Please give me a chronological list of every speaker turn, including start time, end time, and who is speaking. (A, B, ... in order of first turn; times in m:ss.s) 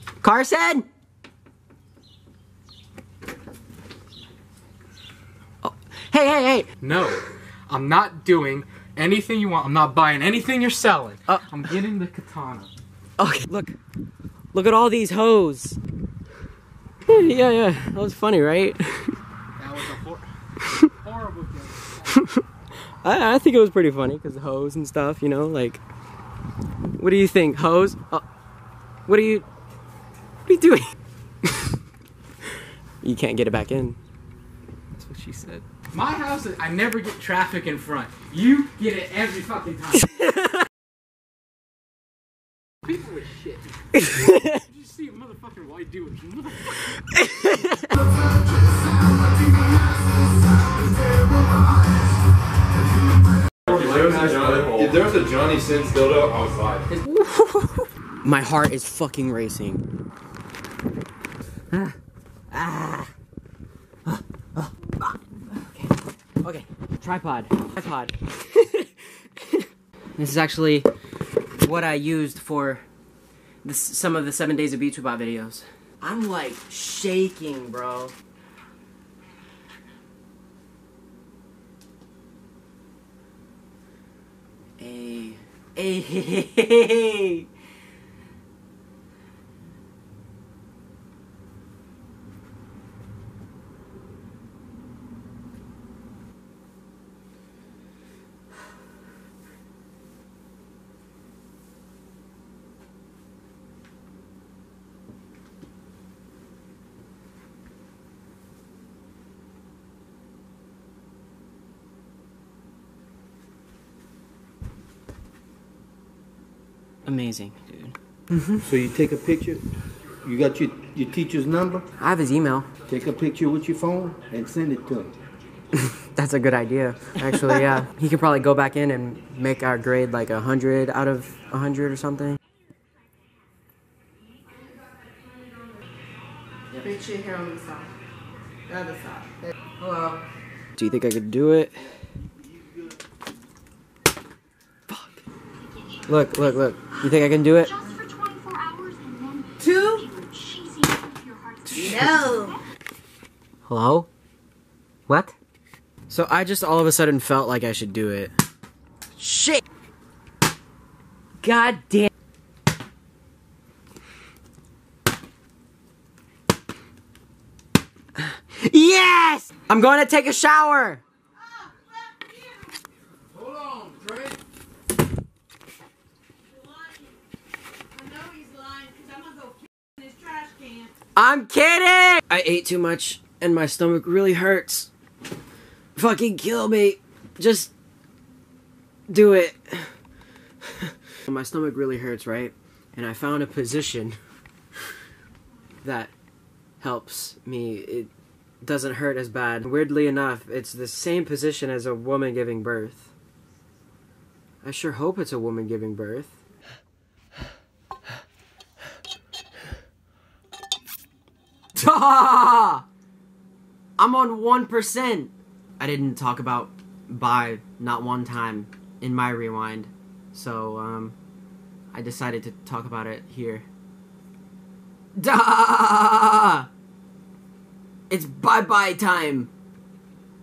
0:00.2-0:00.8 A
0:05.6-0:06.7 A
0:06.8-0:12.7 B
0:13.2-0:13.8 A
0:14.5-0:15.8 A
0:17.0-0:19.2 A
0:19.6-0:22.2 B
0:22.2-0:22.4 A
0:23.0-0:25.8 A
0:26.9-0:28.2 A
0:29.1-0:29.4 A
0:30.4-0:30.9 A
0:33.0-0:34.0 A
0:35.0-0:35.6 A
0:35.9-0:40.1 B
0:42.8-0:46.8 B
0:43.9-0:44.6 A
0:47.1-0:47.9 A
0:53.6-0:56.9 C
0:53.7-0:55.0 D
0:57.1-0:59.8 A
1:02.5-1:03.1 A
1:04.0-1:09.6 A
1:10.2-1:10.9 A
1:11.6-1:12.8 A
1:13.6-1:18.1 A
1:24.8-1:27.5 A
1:57.0-1:58.6 A
1:58.6-1:59.6 D
2:00.2-2:01.8 D
2:02.0-2:02.7 A
2:02.9-2:05.1 D
2:05.8-2:12.4 A
2:16.8-2:17.9 E
2:18.7-2:20.2 E
2:20.8-2:21.8 A
2:26.1-2:27.8 A
2:27.8-2:31.8 F
2:29.6-2:30.1 E
2:31.8-2:32.6 E
2:33.6-2:34.1 A
2:35.1-2:35.4 A
2:36.1-2:38.3 A
2:39.2-2:39.6 A
2:41.4-2:42.1 A
2:48.2-2:51.0 A
2:53.5-2:54.2 B
2:58.2-2:59.4 F
3:00.2-3:00.6 E
3:01.1-3:04.9 A
3:06.0-3:07.7 A
3:09.1-3:09.9 A
3:10.6-3:14.2 A
3:15.8-3:16.1 A
3:16.8-3:18.1 A
3:18.6-3:23.1 A
3:24.6-3:26.4 A
3:31.7-3:32.8 A
3:34.0-3:41.2 A
3:41.9-3:43.6 A
3:45.2-3:46.7 A
3:48.1-3:49.5 A